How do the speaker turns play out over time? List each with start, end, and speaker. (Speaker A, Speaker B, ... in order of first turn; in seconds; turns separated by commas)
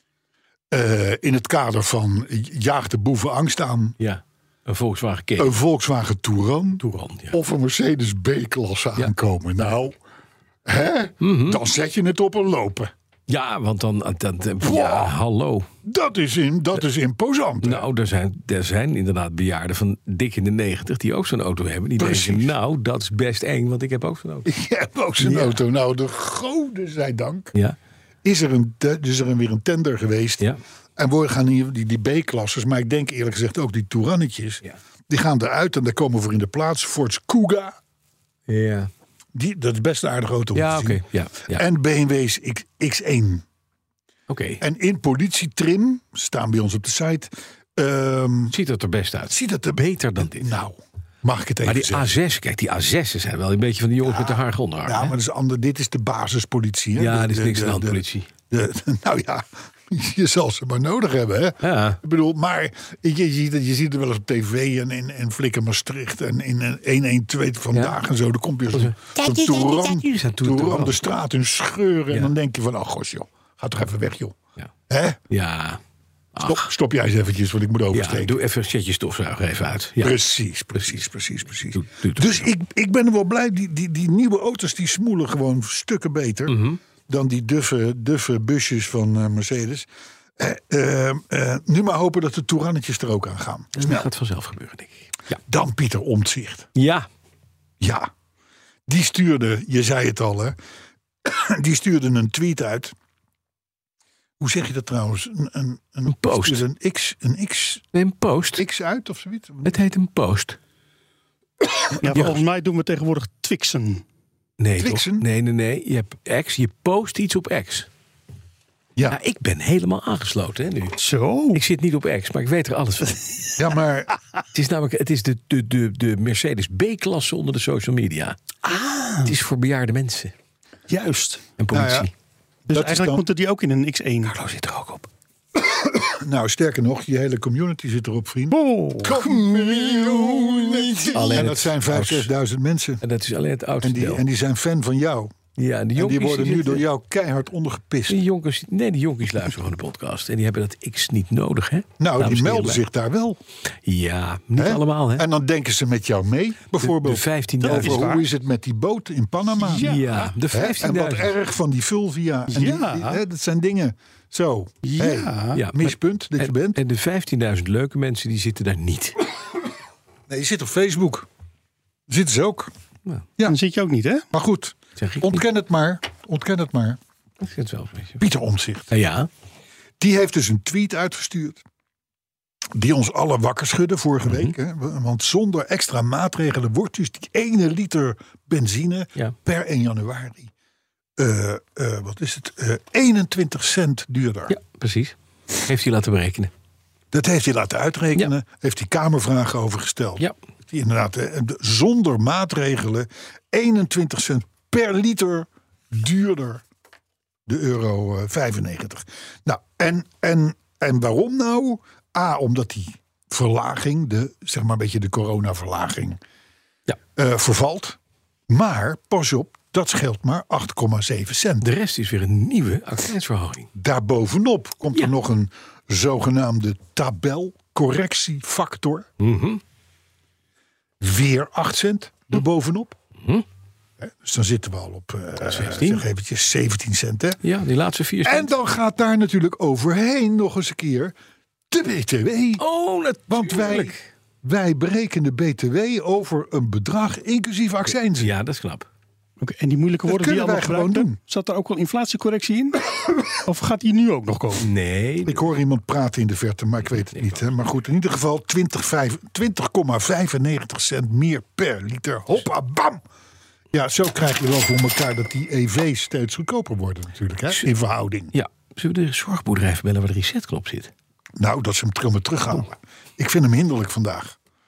Speaker A: 0.7-4.0, Speaker B: 4.0-5.5, Speaker A: 5.4-10.0, Speaker B: 6.8-7.4, Speaker A: 10.7-12.9, Speaker B: 11.2-11.6, Speaker B: 13.3-15.7, Speaker A: 14.6-15.1, Speaker A: 15.8-17.9, Speaker B: 17.6-24.5, Speaker A: 22.0-22.6, Speaker A: 24.5-27.5, Speaker B: 25.2-25.6, Speaker A: 28.2-30.4, Speaker A: 31.0-37.8, Speaker B: 38.5-38.9, Speaker A: 39.4-43.4, Speaker B: 40.5-41.6, Speaker B: 44.3-44.6, Speaker A: 44.6-48.6, Speaker B: 48.5-50.5, Speaker A: 49.3-52.1, Speaker B: 51.6-55.1, Speaker A: 54.1-74.4, Speaker B: 57.0-58.3, Speaker B: 61.6-62.0, Speaker B: 68.7-71.0, Speaker A: 74.9-75.2, Speaker B: 75.3-75.8, Speaker B: 76.3-76.7, Speaker A: 76.4-78.4, Speaker B: 77.9-80.2, Speaker A: 80.0-89.9, Speaker B: 81.7-82.5, Speaker B: 86.5-86.8, Speaker A: 90.4-94.1, Speaker B: 93.8-95.4, Speaker A: 95.4-96.7, Speaker B: 96.8-97.1, Speaker A: 97.8-98.1, Speaker A: 98.9-100.6, Speaker A: 101.2-102.9, Speaker A: 104.4-107.8, Speaker B: 106.1-106.6, Speaker B: 107.9-108.6, Speaker A: 108.6-109.8, Speaker B: 109.7-110.6, Speaker C: 112.0-114.0, Speaker B: 114.6-117.9, Speaker A: 114.8-115.2, Speaker B: 119.1-121.0, Speaker C: 121.0-121.6, Speaker B: 121.5-123.2, Speaker A: 123.6-124.1, Speaker B: 124.5-128.4, Speaker C: 128.7-129.3, Speaker B: 129.2-130.3, Speaker C: 130.9-131.5, Speaker B: 131.6-132.1, Speaker A: 131.7-132.1, Speaker C: 132.7-134.4, Speaker A: 132.7-133.2, Speaker B: 134.3-135.1, Speaker A: 135.6-143.0, Speaker C: 138.5-141.1, Speaker B: 141.1-142.3, Speaker B: 143.0-144.2, Speaker A: 143.8-145.3, Speaker B: 145.6-146.8, Speaker A: 146.0-148.2, Speaker B: 148.1-152.8, Speaker A: 152.0-153.4, Speaker B: 153.8-155.3, Speaker A: 154.6-159.9, Speaker B: 156.8-158.0, Speaker C: 157.6-158.3, Speaker C: 159.6-160.3, Speaker B: 159.8-161.3, Speaker A: 160.5-166.8, Speaker C: 162.5-163.2, Speaker C: 164.8-165.6, Speaker B: 165.5-169.2, Speaker A: 170.3-171.3, Speaker A: 172.1-172.7, Speaker C: 173.5-174.2, Speaker A: 174.3-177.0, Speaker B: 175.0-175.4, Speaker B: 177.4-178.2, Speaker A: 178.2-178.9, Speaker B: 178.9-179.3, Speaker A: 180.0-181.6, Speaker A: 182.7-190.5, Speaker B: 184.3-184.5, Speaker A: 191.2-194.6, Speaker B: 194.5-196.5, Speaker A: 197.1-206.6, Speaker A: 207.5-216.2, Speaker A: 217.2-218.0, Speaker A: 218.5-221.7, Speaker B: 221.6-223.7, Speaker A: 223.8-229.1, Speaker B: 229.2-229.6, Speaker A: 231.0-233.0, Speaker A: 234.0-237.4, Speaker B: 235.4-236.0, Speaker B: 237.4-238.5, Speaker A: 238.2-241.1, Speaker A: 241.7-242.6, Speaker B: 242.6-244.1, Speaker A: 243.3-248.3, Speaker B: 248.1-248.9, Speaker C: 249.4-254.7, Speaker A: 250.1-251.2, Speaker B: 254.6-255.5, Speaker A: 255.2-263.0, Speaker A: 263.7-268.3, Speaker B: 268.3-270.9, Speaker A: 271.4-274.4